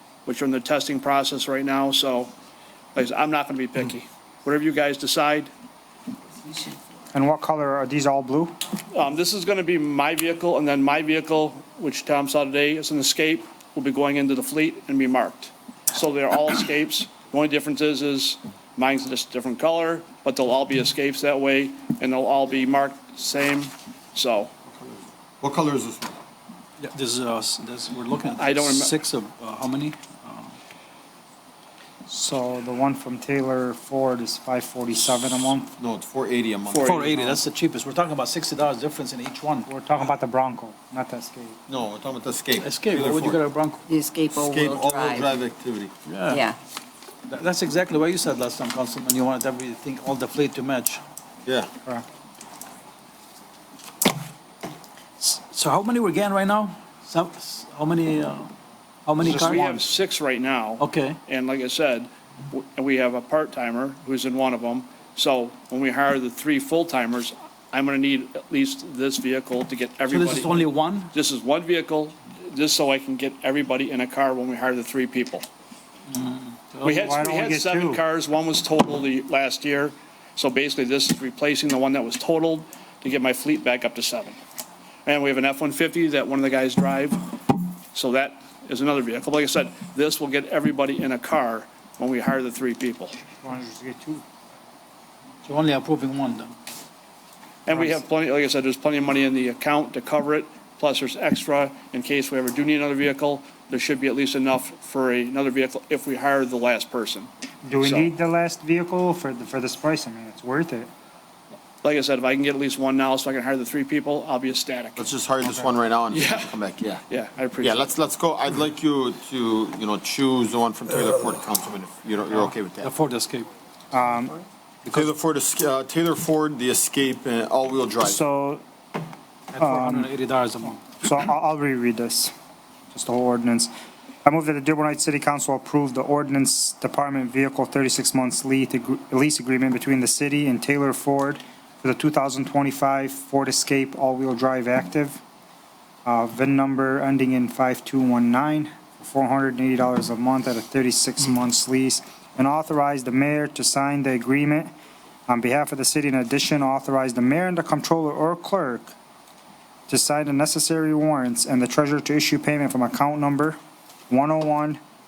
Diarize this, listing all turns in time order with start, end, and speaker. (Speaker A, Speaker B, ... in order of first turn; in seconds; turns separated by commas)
Speaker A: 0.2-2.3, Speaker A: 2.9-5.5, Speaker B: 6.4-6.7, Speaker C: 7.1-8.5, Speaker A: 8.9-24.5, Speaker D: 24.8-26.1, Speaker E: 26.8-30.5, Speaker A: 28.3-28.9, Speaker C: 32.1-35.7, Speaker D: 35.8-37.3, Speaker E: 36.7-39.7, Speaker C: 39.7-41.6, Speaker D: 41.7-43.4, Speaker E: 42.6-43.8, Speaker B: 43.9-45.4, Speaker D: 44.3-45.9, Speaker E: 46.1-46.4, Speaker B: 46.3-46.6, Speaker E: 47.3-51.0, Speaker E: 55.2-58.5, Speaker E: 59.0-59.8, Speaker A: 59.2-75.5, Speaker E: 60.8-61.2, Speaker E: 70.1-71.1, Speaker E: 76.1-77.0, Speaker A: 76.8-84.4, Speaker C: 76.9-78.0, Speaker A: 85.0-87.3, Speaker A: 87.9-93.2, Speaker C: 93.4-94.2, Speaker E: 95.4-96.5, Speaker A: 97.7-107.3, Speaker C: 97.7-98.0, Speaker C: 107.6-110.9, Speaker A: 107.8-108.1, Speaker A: 111.8-115.1, Speaker D: 115.0-117.0, Speaker A: 116.1-116.6, Speaker A: 117.1-117.8, Speaker D: 117.6-122.9, Speaker E: 122.3-123.5, Speaker C: 123.9-124.3, Speaker D: 124.9-128.2, Speaker C: 128.0-128.6, Speaker E: 129.5-130.8, Speaker C: 129.6-130.1, Speaker C: 131.0-132.3, Speaker C: 132.9-133.7, Speaker C: 134.2-145.2, Speaker C: 146.0-154.7, Speaker C: 155.3-158.9, Speaker C: 159.9-163.6, Speaker C: 164.1-164.8